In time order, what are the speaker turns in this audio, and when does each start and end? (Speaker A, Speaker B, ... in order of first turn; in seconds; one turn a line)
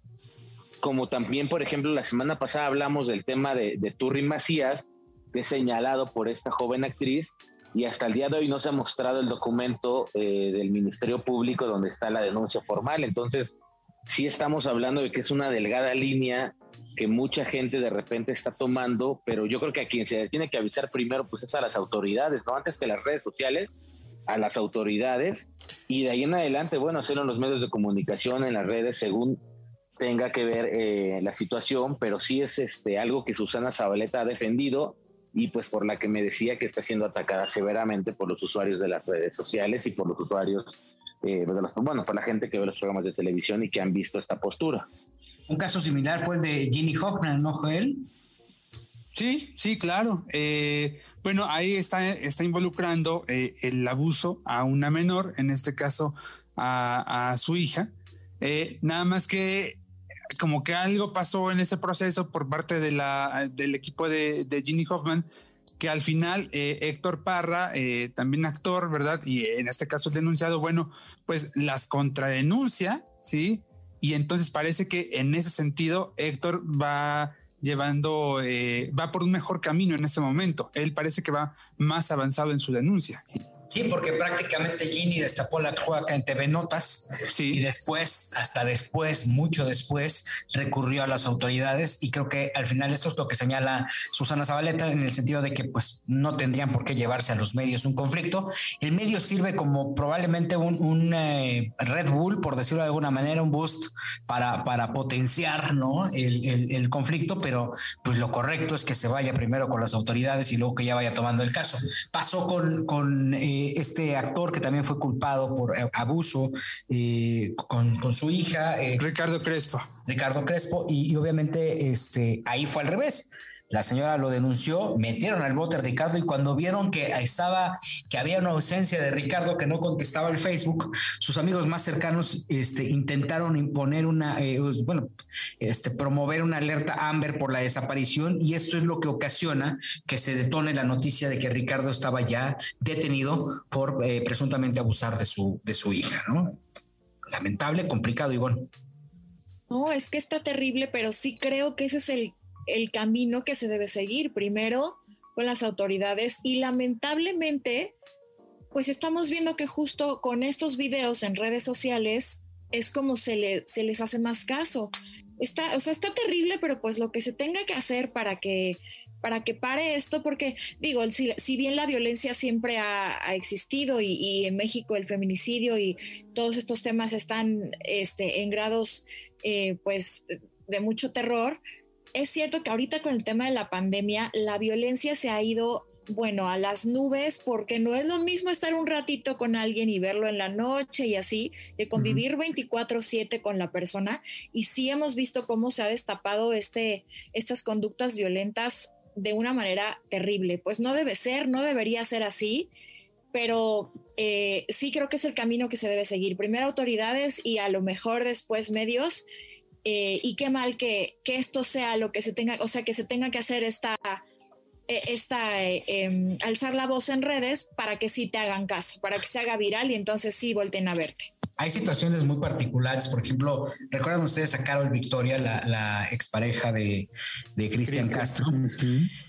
Speaker A: 0.8-13.5
Speaker A: 14.1-23.7
Speaker A: 24.3-29.4
Speaker A: 30.0-44.9
Speaker B: 45.5-48.0
Speaker C: 49.1-57.9
Speaker C: 58.4-59.8
Speaker C: 60.4-65.3
Speaker C: 65.8-83.2
Speaker B: 83.7-119.0
Speaker C: 87.3-87.6
Speaker C: 119.0-119.9
Speaker B: 120.0-135.1
Speaker B: 135.6-146.5
Speaker B: 147.3-148.6
Speaker D: 149.7-157.9
Speaker D: 158.7-181.6
Speaker D: 182.1-202.7
Speaker C: 191.9-192.2
Speaker D: 203.3-209.2
Speaker D: 209.8-214.2
Speaker D: 214.9-221.3
Speaker B: 221.6-228.6
Speaker C: 227.8-229.1